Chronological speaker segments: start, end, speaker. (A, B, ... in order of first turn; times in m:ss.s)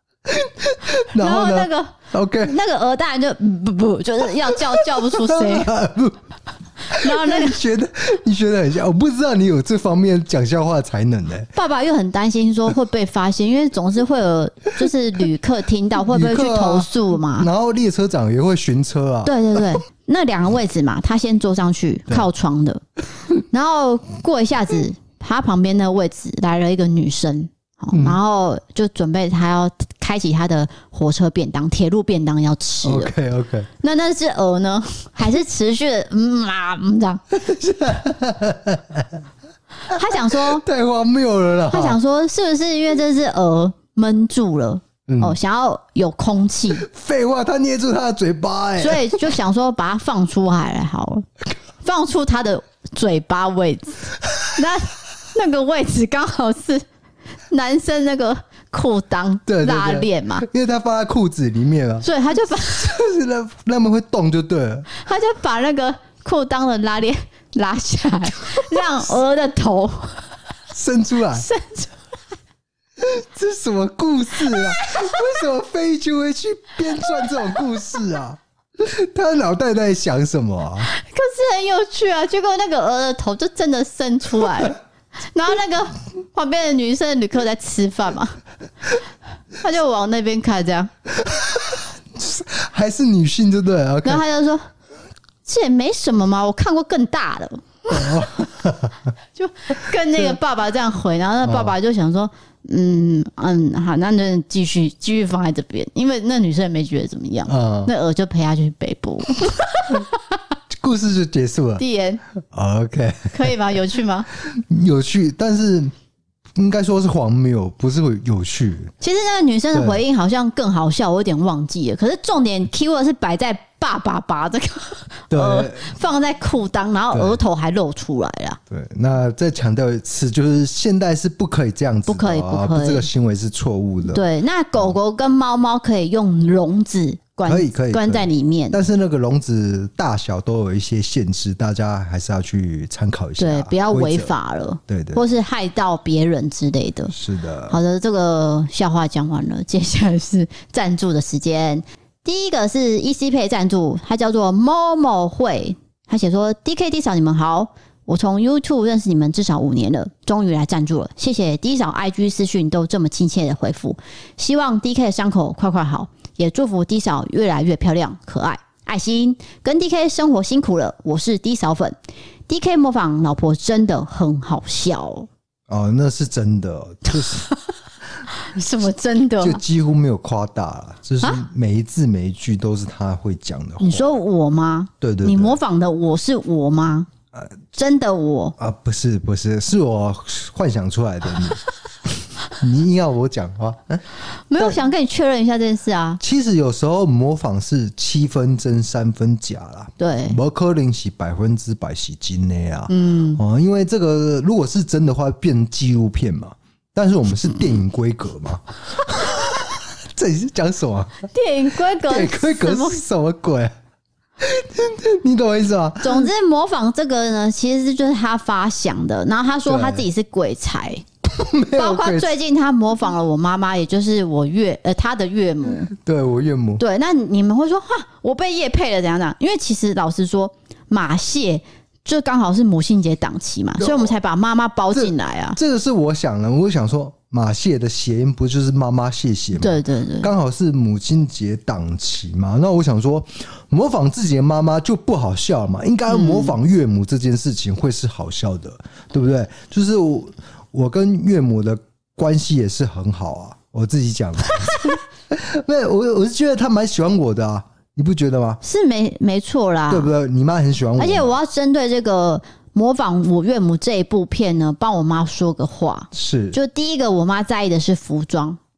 0:00.2-0:02.6 A
0:01.1-0:05.7 B
0:04.5-0:06.2 A
0:06.9-0:07.6 B
0:06.9-0:11.5 A
0:11.5-0:17.5 B
0:16.1-0:19.8 A
0:19.2-0:22.8 B
0:23.5-0:33.1 B
0:27.9-0:28.2 A
0:32.8-0:33.7 A
0:33.8-0:37.2 B
0:37.3-0:39.2 A
0:39.9-0:40.6 B
0:39.9-0:42.0 A
0:41.7-0:46.8 B
0:45.1-0:45.4 A
0:46.8-0:49.3 A
0:48.8-0:51.2 B
0:51.8-0:56.8 B
0:57.5-1:00.4 B
0:59.5-1:02.1 A
1:02.0-1:02.9 B
1:02.7-1:04.9 A
1:04.9-1:10.3 B
1:10.7-1:11.5 A
1:11.4-1:11.9 B
1:13.0-1:20.9 A
1:14.5-1:15.1 B
1:20.9-1:24.8 B
1:25.3-1:28.4 B
1:29.6-1:30.9 B
1:31.2-1:34.2 A
1:34.0-1:34.7 B
1:35.4-1:38.2 B
1:37.9-1:39.1 A
1:39.4-1:50.1 B
1:41.4-1:41.7 A
1:47.5-1:47.9 A
1:50.7-1:51.8 A
1:51.8-1:52.2 B
1:52.4-1:53.5 A
1:53.3-1:54.3 B
1:54.3-1:55.9 A
1:56.6-1:58.9 A
1:59.0-2:08.6 B
1:59.7-2:00.0 A
2:05.3-2:05.9 A
2:07.1-2:07.4 A
2:08.7-2:14.2 A
2:12.1-2:13.1 B
2:14.0-2:18.8 B
2:17.4-2:24.3 A
2:23.4-2:27.1 B
2:24.9-2:25.2 A
2:27.1-2:27.8 A
2:27.7-2:51.9 B
2:52.5-2:55.3 B
2:55.7-2:57.5 A
2:58.3-2:59.6 B
2:59.4-3:04.1 A
3:03.8-3:07.1 B
3:05.0-3:05.6 A
3:07.7-3:08.6 B
3:08.6-3:14.0 A
3:14.5-3:16.2 B
3:16.2-3:31.3 A
3:20.0-3:20.4 B
3:22.9-3:23.4 B
3:31.3-3:33.0 B
3:32.0-3:33.7 A
3:34.4-3:36.3 A
3:36.0-3:41.0 B
3:39.6-3:40.1 A
3:41.2-3:42.3 A
3:41.8-3:45.9 B
3:45.9-3:46.8 A
3:46.8-3:55.6 B
3:53.8-3:54.1 A
3:54.9-4:18.6 A
3:59.6-4:00.3 B
4:06.1-4:06.5 B
4:18.6-4:20.1 B
4:19.9-4:21.3 A
4:21.0-4:28.6 B
4:26.1-4:26.6 A